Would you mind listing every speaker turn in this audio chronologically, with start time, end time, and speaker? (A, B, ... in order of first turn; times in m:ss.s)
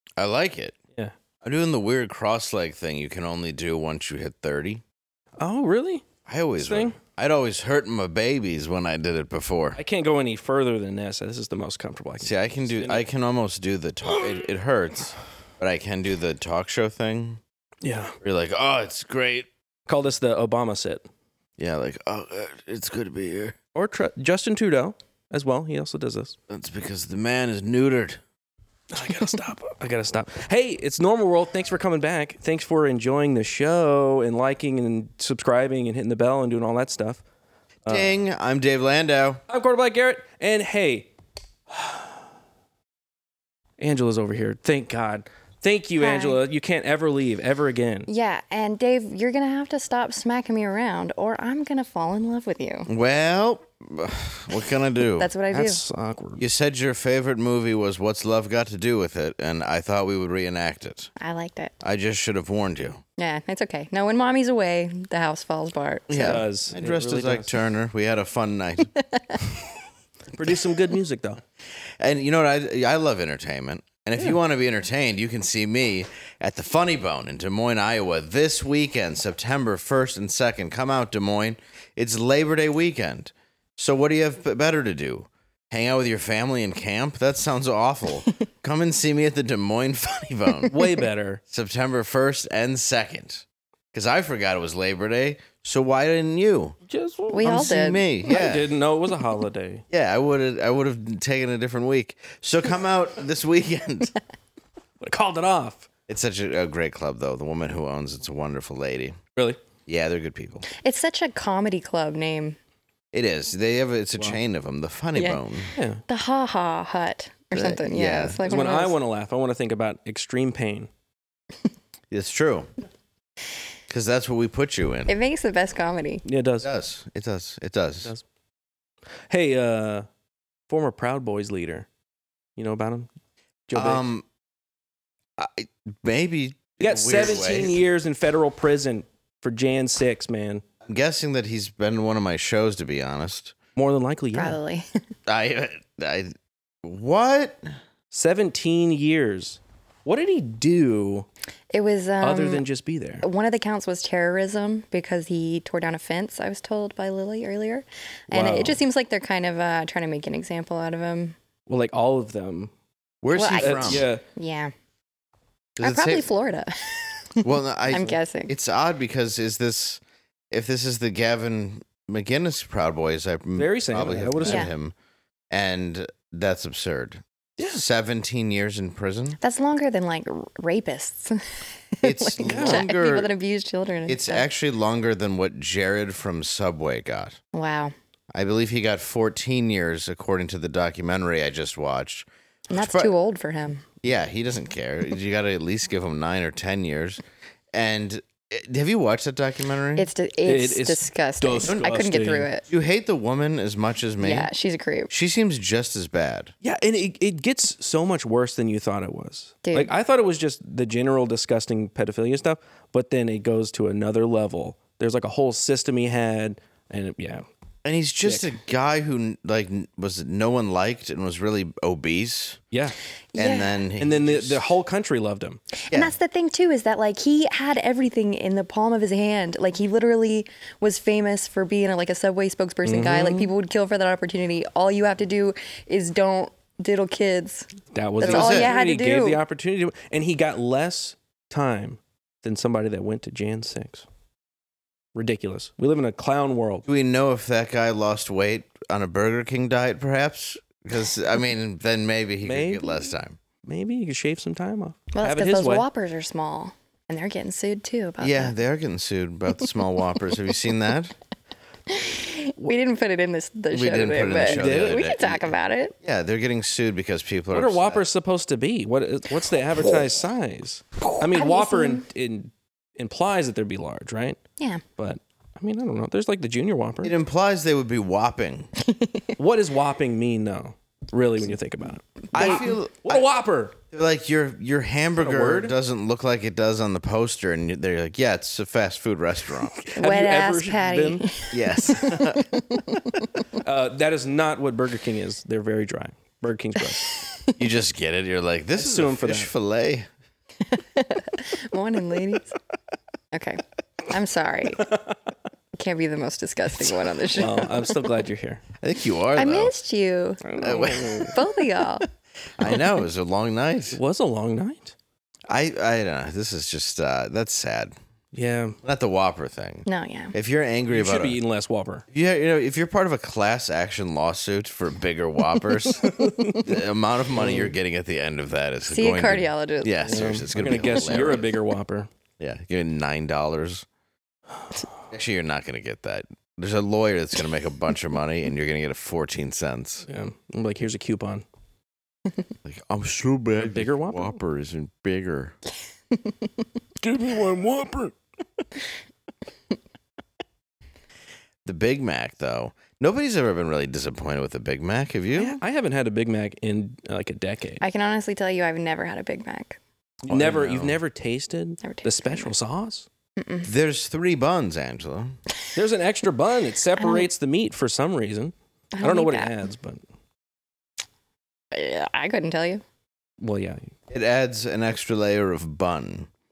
0:00.2-0:00.8 A
0:01.4-0:04.8 A
0:05.4-0:06.0 B
0:06.2-0:09.8 A
0:06.6-0:07.0 B
0:09.8-0:13.0 B
0:12.2-0:17.4 A
0:17.8-0:18.2 B
0:18.2-0:19.5 A
0:19.9-0:21.0 B
0:21.6-0:23.6 A
0:23.7-0:26.4 B
0:26.5-0:28.2 A
0:28.9-0:37.2 B
0:37.8-0:38.2 B
0:37.9-0:39.4 A
0:39.5-0:41.1 B
0:41.7-0:42.0 B
0:43.8-0:48.1 B
0:46.0-0:46.4 C
0:48.1-0:52.9 C
0:52.8-0:55.3 A
0:55.2-0:55.8 C
0:55.5-0:56.4 B
0:56.4-1:01.1 A
1:01.2-1:01.7 C
1:01.8-1:03.0 A
1:03.2-1:06.4 C
1:06.1-1:08.9 A
1:06.2-1:07.6 B
1:10.3-1:11.4 B
1:12.0-1:30.9 A
1:30.7-1:31.4 B
1:31.5-1:36.8 A
1:36.9-1:37.5 B
1:37.3-1:38.1 C
1:37.4-1:38.7 A
1:38.3-1:39.8 B
1:39.9-1:44.1 A
1:45.0-1:45.8 B
1:46.1-1:49.2 A
1:49.8-1:50.6 A
1:50.8-1:52.6 C
1:53.1-1:55.7 A
1:55.8-1:56.0 B
1:56.1-1:59.0 C
1:57.5-1:58.4 A
1:58.5-2:00.9 B
2:02.1-2:02.7 A
2:03.9-2:05.1 A
2:05.1-2:06.2 C
2:06.2-2:06.7 B
2:06.6-2:08.1 A
2:09.3-2:10.1 B
2:10.7-2:11.9 B
2:12.6-2:13.1 B
2:13.7-2:14.1 B
2:13.7-2:14.2 A
2:15.4-2:17.8 A
2:16.8-2:20.6 B
2:20.8-2:23.5 A
2:23.8-2:24.6 B
2:24.3-2:24.9 C
2:25.2-2:27.7 A
2:28.1-2:31.3 B
2:31.7-2:32.6 C
2:32.2-2:33.2 B
2:33.2-2:41.3 C
2:38.3-2:38.8 B
2:41.7-2:42.7 B
2:43.2-2:44.0 A
2:43.3-2:44.7 C
2:43.6-2:44.2 B
2:45.8-2:46.3 A
2:45.8-2:48.5 C
2:47.4-2:54.9 A
2:53.6-2:54.7 B
2:54.4-2:54.7 C
2:55.5-2:59.4 A
2:57.6-2:57.8 B
2:59.4-3:01.4 C
3:02.0-3:04.4 C
3:02.0-3:03.3 A
3:02.4-3:02.8 B
3:04.1-3:07.4 A
3:07.5-3:07.9 C
3:08.3-3:13.1 A
3:12.7-3:13.8 C
3:14.0-3:17.2 A
3:17.7-3:20.1 A
3:20.0-3:22.6 C
3:20.4-3:22.5 B
3:22.7-3:24.5 A
3:24.2-3:25.1 C
3:25.1-3:26.5 A
3:26.6-3:37.4 B
3:29.6-3:29.9 C
3:37.8-3:42.6 A
3:38.2-3:38.5 B
3:43.3-3:43.8 C
3:43.4-3:44.6 A
3:44.0-3:45.6 B
3:45.9-3:57.7 C
3:52.8-3:53.5 B
3:57.9-4:04.0 B
3:58.2-3:59.4 C
3:58.2-3:58.7 A
4:05.1-4:06.8 B
4:06.8-4:13.4 A
4:12.4-4:12.9 B
4:13.6-4:15.8 B
4:15.1-4:18.5 C
4:18.2-4:21.1 A
4:21.9-4:25.9 C
4:23.7-4:28.0 A
4:24.4-4:25.0 B
4:27.5-4:34.4 B
4:31.3-4:32.0 C
4:34.6-4:34.8 C
4:35.0-4:37.2 B
4:37.0-4:38.7 A
4:38.9-4:39.2 C
4:39.4-4:43.8 B
4:42.3-4:43.3 A
4:42.4-4:42.7 C
4:43.9-4:49.8 A
4:45.2-4:45.7 B
4:49.8-4:51.3 B
4:49.9-4:53.0 C
4:51.5-4:52.6 A
4:53.6-4:57.1 B
4:57.1-4:57.5 C
4:57.6-5:00.1 A
4:58.8-4:59.5 B
5:00.7-5:02.5 C
5:03.3-5:04.9 C
5:04.8-5:05.1 B
5:05.8-5:07.7 C
5:07.3-5:08.6 B
5:08.8-5:09.7 A
5:09.4-5:10.4 C
5:10.4-5:11.4 B
5:10.6-5:11.4 A
5:11.3-5:12.1 C
5:12.6-5:14.0 A
5:13.9-5:14.9 B
5:15.5-5:17.9 A
5:18.3-5:18.8 B
5:18.8-5:21.4 A
5:19.8-5:20.3 C
5:20.9-5:22.0 B
5:22.1-5:31.5 A
5:26.0-5:26.7 B
5:27.3-5:27.7 B
5:28.9-5:31.1 C
5:30.0-5:32.1 B
5:32.4-5:33.8 A
5:35.1-5:40.0 A
5:40.0-5:41.4 B
5:42.6-5:45.6 A
5:43.6-5:44.3 B
5:47.0-5:48.1 B
5:51.6-5:55.6 A
5:55.3-5:57.8 B
5:57.8-5:59.8 C
6:00.2-6:03.1 B
6:00.3-6:01.0 A
6:01.8-6:02.5 C
6:03.4-6:03.7 C
6:03.6-6:05.4 A
6:05.7-6:10.0 B
6:07.0-6:07.3 C
6:08.9-6:09.6 C
6:11.7-6:12.8 C
6:13.4-6:13.9 B
6:14.1-6:16.3 A